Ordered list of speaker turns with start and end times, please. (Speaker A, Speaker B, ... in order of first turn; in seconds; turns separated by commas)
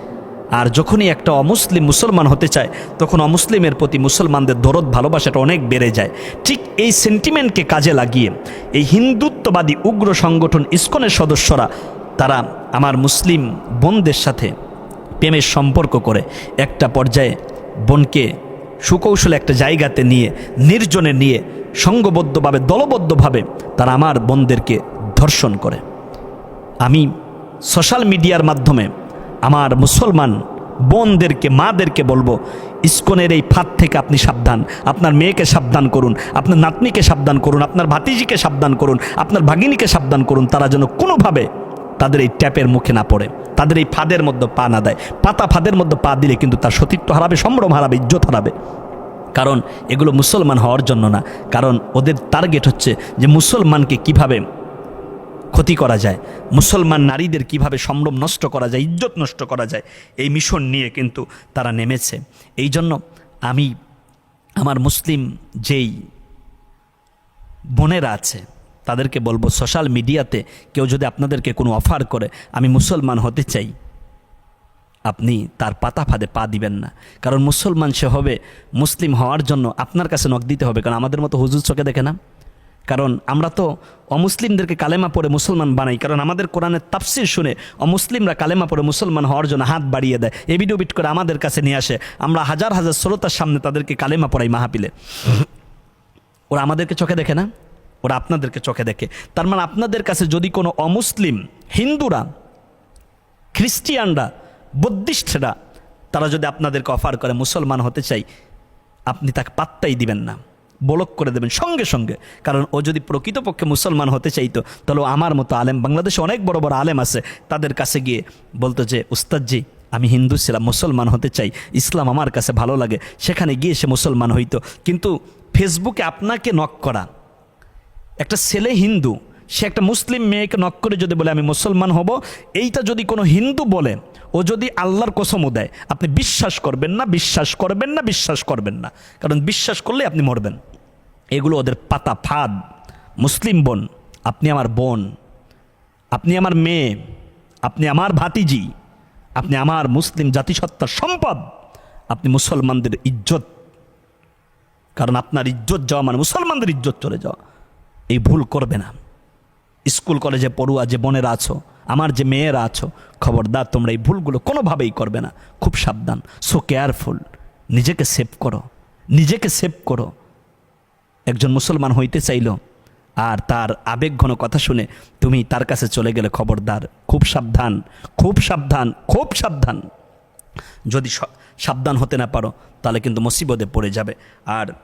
Speaker A: 0.6-14.5, Speaker A: 15.2-17.3, Speaker A: 17.9-18.3, Speaker A: 18.8-25.8, Speaker A: 26.8-27.1, Speaker A: 27.7-28.9, Speaker A: 29.5-41.5, Speaker A: 42.0-48.5, Speaker A: 49.4-54.4, Speaker A: 55.5-63.7, Speaker A: 64.6-65.9, Speaker A: 67.8-73.7, Speaker A: 75.1-82.2, Speaker A: 82.9-95.5, Speaker A: 96.5-97.5, Speaker A: 98.0-102.3, Speaker A: 103.5-105.5, Speaker A: 106.1-108.2, Speaker A: 109.1-127.1, Speaker A: 128.2-140.6, Speaker A: 141.3-142.6, Speaker A: 143.2-145.1, Speaker A: 146.2-147.0, Speaker A: 147.7-148.7, Speaker A: 149.4-151.4, Speaker A: 152.1-153.5, Speaker A: 155.0-157.4, Speaker A: 158.1-158.9, Speaker A: 159.9-170.1, Speaker A: 171.3-172.6, Speaker A: 173.2-179.8, Speaker A: 180.9-184.7